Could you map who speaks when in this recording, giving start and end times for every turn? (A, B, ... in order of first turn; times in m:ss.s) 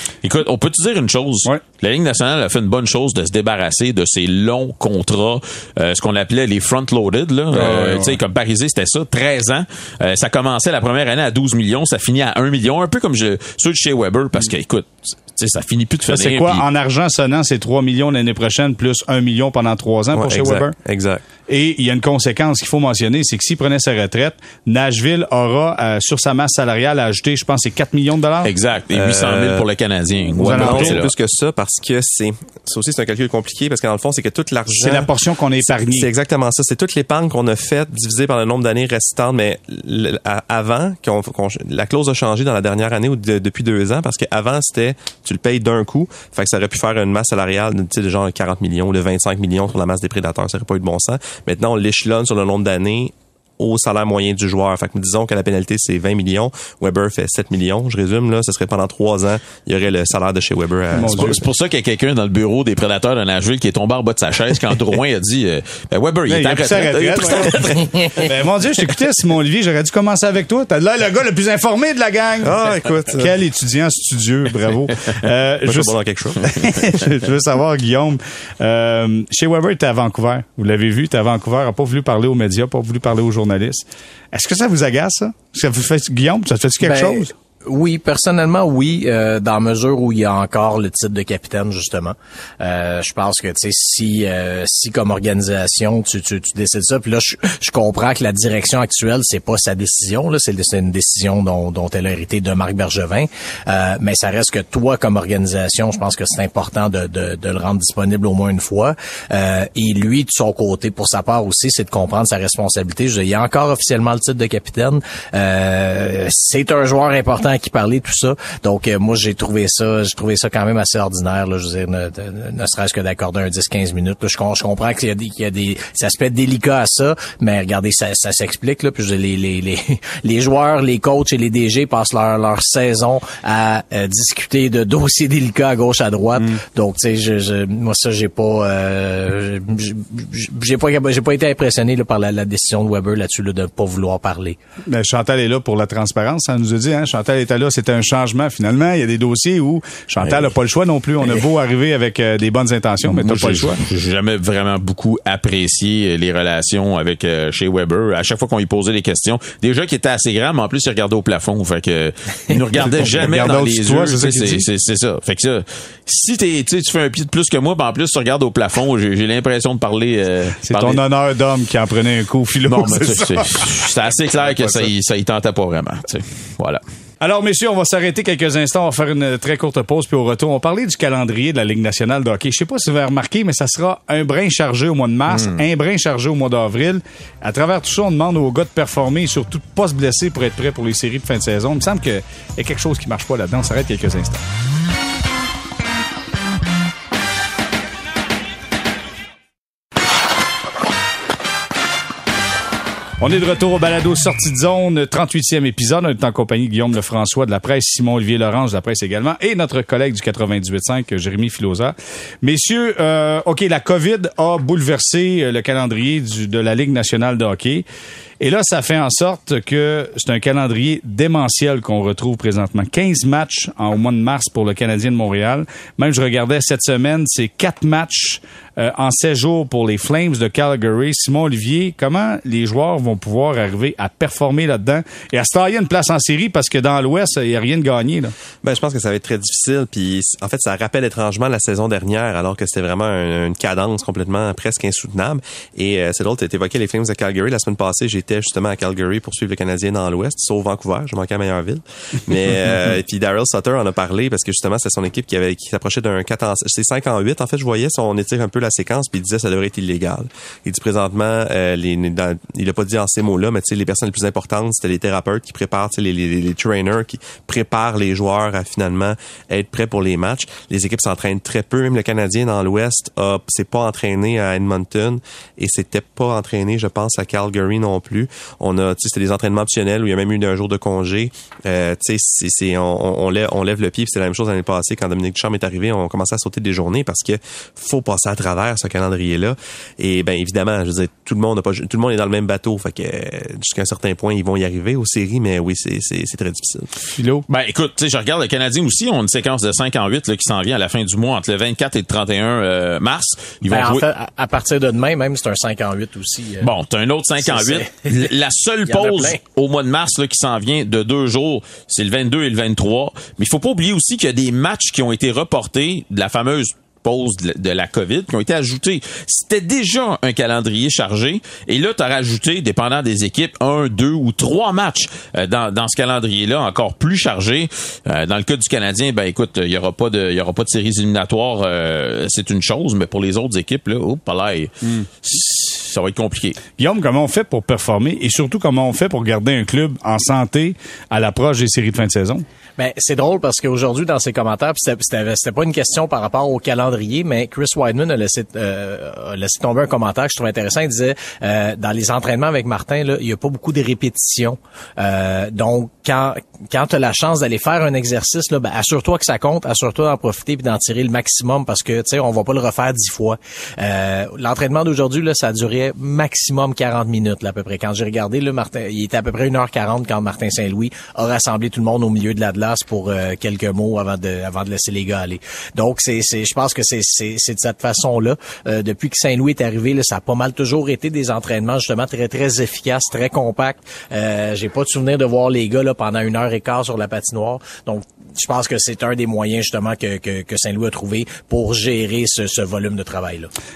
0:00.2-0:16.6 A
0:07.5-0:08.2 B
0:16.1-0:20.7 B
0:20.1-0:21.2 C
0:21.5-0:28.5 B
0:28.4-0:31.1 A
0:28.9-0:29.6 C
0:30.4-0:31.0 B
0:30.4-0:35.1 C
0:34.7-0:36.1 B
0:35.6-1:01.4 C
1:00.9-1:01.4 B
1:01.0-1:08.3 A
1:06.3-1:12.6 B
1:12.4-1:13.3 C
1:13.1-1:27.3 B
1:15.6-1:17.1 C
1:26.8-2:24.6 D
2:24.9-2:33.8 B
2:33.0-2:51.0 A
2:42.8-2:44.6 B
2:50.6-2:53.8 B
2:52.7-2:56.8 A
2:54.4-2:54.9 B
2:57.2-3:14.4 B
3:05.3-3:05.6 A
3:23.2-3:37.8 B
3:38.4-3:58.3 B
3:58.6-4:56.9 C
4:57.1-4:57.4 B
4:57.5-5:04.0 A
5:03.6-5:06.7 D
5:06.6-5:36.6 A
5:07.4-5:08.3 D
5:08.8-5:09.4 D
5:36.8-5:42.4 B
5:42.8-6:33.5 D